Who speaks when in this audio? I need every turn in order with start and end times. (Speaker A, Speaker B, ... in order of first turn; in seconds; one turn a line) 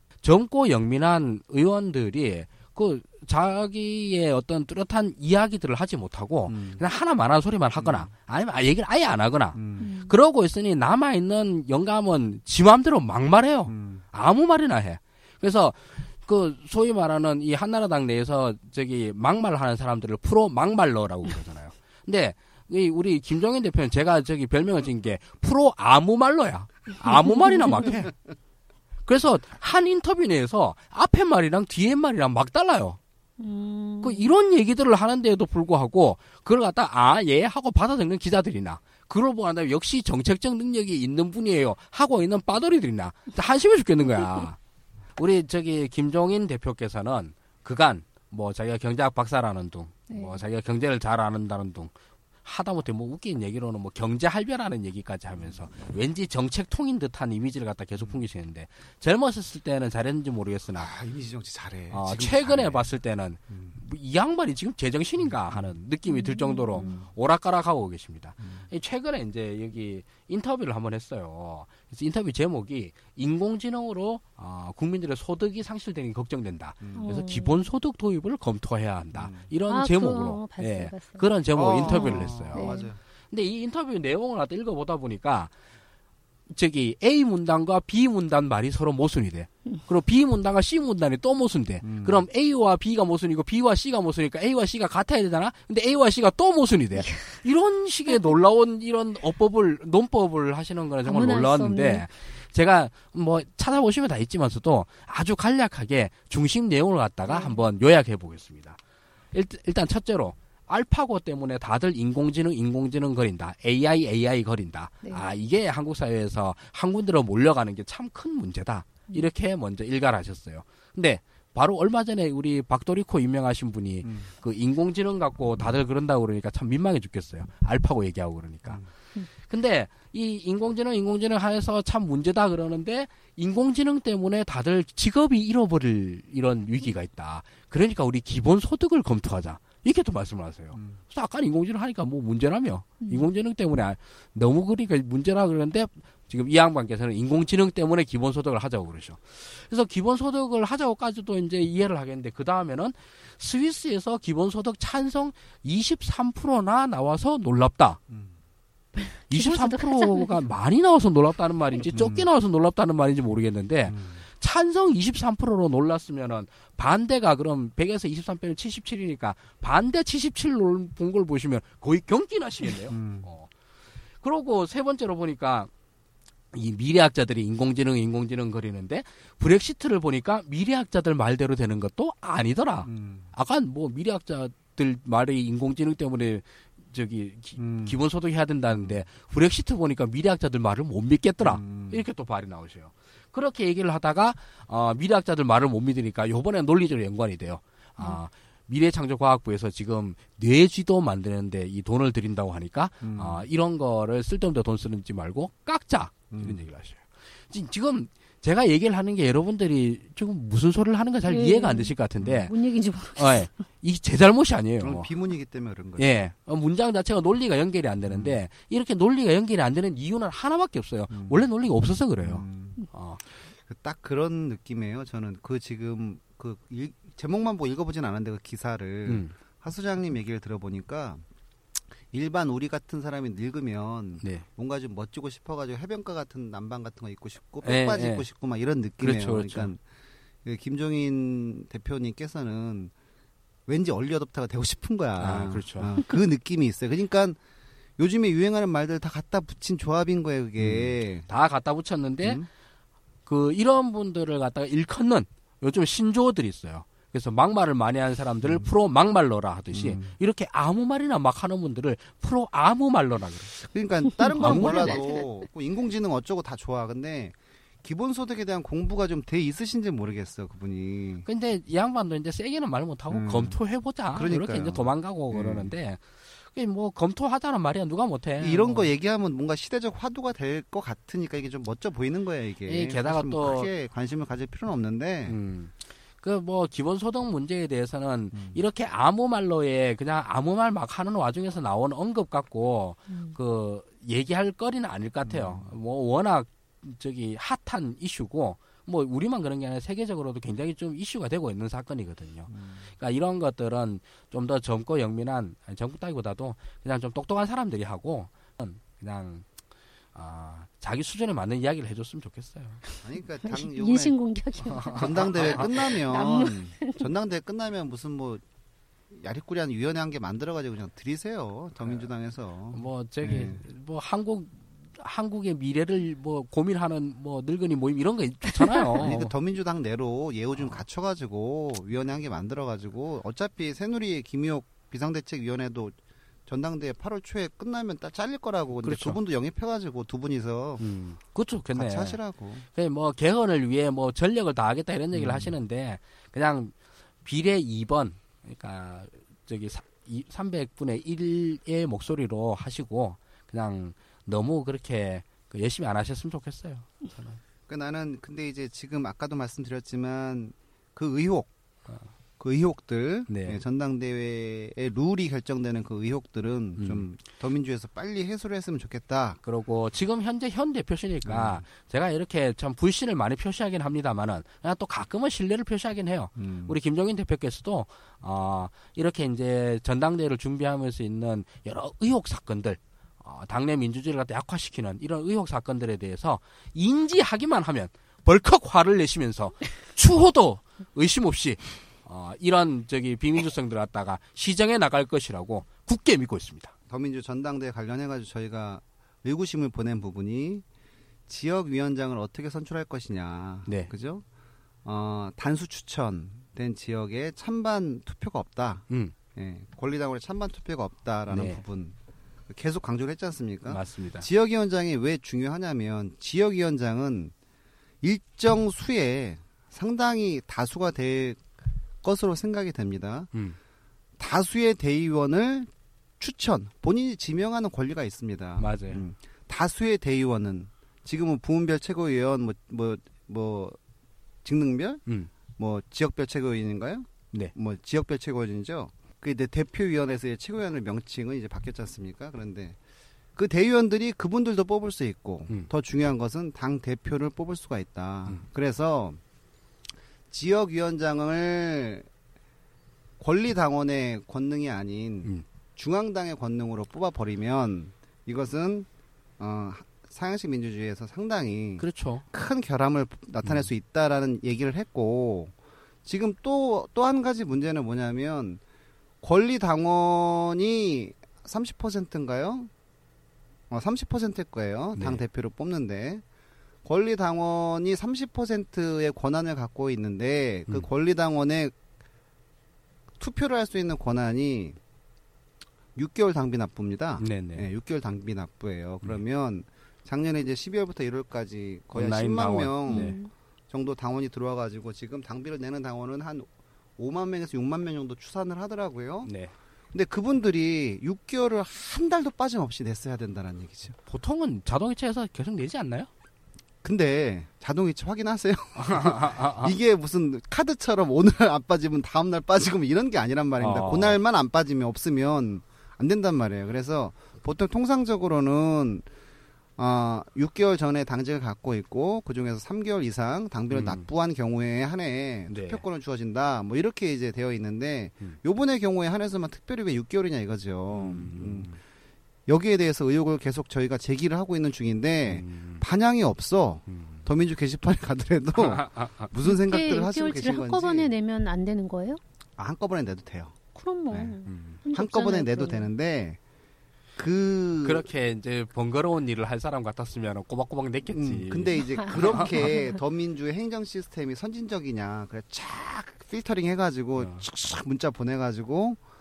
Speaker A: 0.2-28.1
Speaker B: 6.5-6.8
Speaker B: 7.8-8.1
Speaker B: 9.5-9.9
Speaker C: 9.8-10.1
Speaker B: 13.7-14.0
Speaker A: 29.1-33.0
Speaker C: 33.4-34.3
Speaker A: 34.0-44.6
Speaker A: 45.2-51.9
Speaker C: 50.1-50.4
Speaker A: 52.4-60.9
Speaker B: 60.7-62.9
Speaker A: 61.9-82.8
Speaker B: 63.5-63.8
Speaker B: 65.2-65.7
Speaker C: 66.1-67.0
Speaker B: 68.4-68.7
Speaker B: 76.8-77.1
Speaker C: 76.9-77.6
Speaker B: 79.1-79.5
Speaker C: 79.7-81.3
Speaker B: 81.5-83.0
Speaker C: 81.8-82.9
Speaker A: 83.3-85.5
Speaker A: 86.5-108.8
Speaker B: 91.8-92.2
Speaker C: 101.0-102.0
Speaker C: 107.3-107.6
Speaker A: 109.3-128.8
Speaker A: 129.4-158.0
Speaker C: 143.0-143.3
Speaker C: 159.0-160.3
Speaker A: 159.3-173.5
Speaker B: 161.9-162.3
Speaker B: 163.9-164.2
Speaker B: 172.9-173.3
Speaker A: 174.2-175.7
Speaker A: 176.5-212.5
Speaker B: 182.8-183.3
Speaker B: 187.6-187.9
Speaker B: 188.7-189.0
Speaker B: 191.4-192.0
Speaker B: 203.0-203.4
Speaker B: 206.3-206.6
Speaker C: 211.3-213.6
Speaker A: 213.2-215.1
Speaker B: 214.8-216.1
Speaker A: 216.0-223.2
Speaker B: 218.1-218.3
Speaker B: 221.1-221.4
Speaker B: 222.2-222.8
Speaker B: 223.5-231.2
Speaker A: 229.1-229.3
Speaker B: 232.1-239.8
Speaker A: 234.2-234.4
Speaker A: 237.6-238.2
Speaker A: 239.0-239.7
Speaker B: 240.4-242.9
Speaker B: 243.7-247.4
Speaker A: 245.2-245.9
Speaker B: 248.0-251.3
Speaker A: 250.6-252.4
Speaker A: 253.2-263.5
Speaker B: 258.4-258.7
Speaker B: 259.7-260.1
Speaker B: 263.6-271.2
Speaker A: 264.4-265.0
Speaker C: 264.4-265.0
Speaker A: 271.2-278.9
Speaker B: 273.1-273.6
Speaker B: 274.1-275.7
Speaker B: 278.4-285.4
Speaker A: 282.7-283.7
Speaker A: 285.2-309.5
Speaker B: 288.3-288.6
Speaker C: 293.1-293.4
Speaker B: 295.2-295.7
Speaker B: 302.5-302.8
Speaker A: 310.1-312.8
Speaker B: 313.0-314.2
Speaker C: 313.4-317.0
Speaker A: 314.8-315.7
Speaker B: 314.9-318.4
Speaker B: 319.1-323.6
Speaker A: 322.7-329.3
Speaker B: 329.0-340.8
Speaker A: 338.8-339.2
Speaker A: 340.8-342.2
Speaker B: 341.7-342.6
Speaker A: 342.7-346.7
Speaker B: 345.1-345.5
Speaker A: 347.2-357.4
Speaker B: 357.7-361.5
Speaker B: 362.4-369.4
Speaker A: 363.3-363.6
Speaker A: 366.8-367.0
Speaker A: 369.4-396.7
Speaker B: 371.2-371.6
Speaker B: 376.4-376.7
Speaker B: 396.9-400.6
Speaker B: 401.3-404.2
Speaker A: 403.6-403.9
Speaker B: 404.8-411.9
Speaker A: 408.9-409.1
Speaker A: 411.3-411.6
Speaker B: 412.5-417.3
Speaker A: 413.7-414.3
Speaker B: 418.0-421.5
Speaker B: 422.0-423.3
Speaker B: 424.2-425.7
Speaker B: 426.2-433.8
Speaker A: 428.6-429.0
Speaker B: 434.4-435.0
Speaker B: 435.6-442.8
Speaker B: 443.4-449.2
Speaker B: 450.3-452.1
Speaker B: 453.2-458.9
Speaker B: 459.4-465.5
Speaker A: 461.8-462.2
Speaker B: 466.0-468.6
Speaker B: 469.2-472.7
Speaker B: 473.7-476.2
Speaker A: 474.9-475.2
Speaker B: 476.8-481.7
Speaker B: 483.2-484.8
Speaker B: 485.9-493.2
Speaker A: 487.2-487.6
Speaker A: 491.9-493.2
Speaker C: 492.9-493.3
Speaker B: 493.7-499.3
Speaker A: 499.2-499.5
Speaker B: 499.9-504.0
Speaker A: 504.1-506.1
Speaker B: 506.8-519.0
Speaker A: 508.8-509.7
Speaker A: 513.6-514.2
Speaker B: 519.8-531.7
Speaker A: 523.7-524.1
Speaker A: 525.5-525.8
Speaker A: 530.9-531.8
Speaker B: 532.5-541.1
Speaker A: 535.3-535.8
Speaker A: 536.9-537.2
Speaker A: 538.6-539.3
Speaker C: 539.4-542.2
Speaker B: 542.6-543.5
Speaker C: 543.7-545.9
Speaker B: 544.1-544.4
Speaker A: 544.4-544.8
Speaker B: 544.9-546.4
Speaker B: 547.1-548.1
Speaker A: 547.8-552.7
Speaker B: 551.1-559.0
Speaker A: 557.2-557.5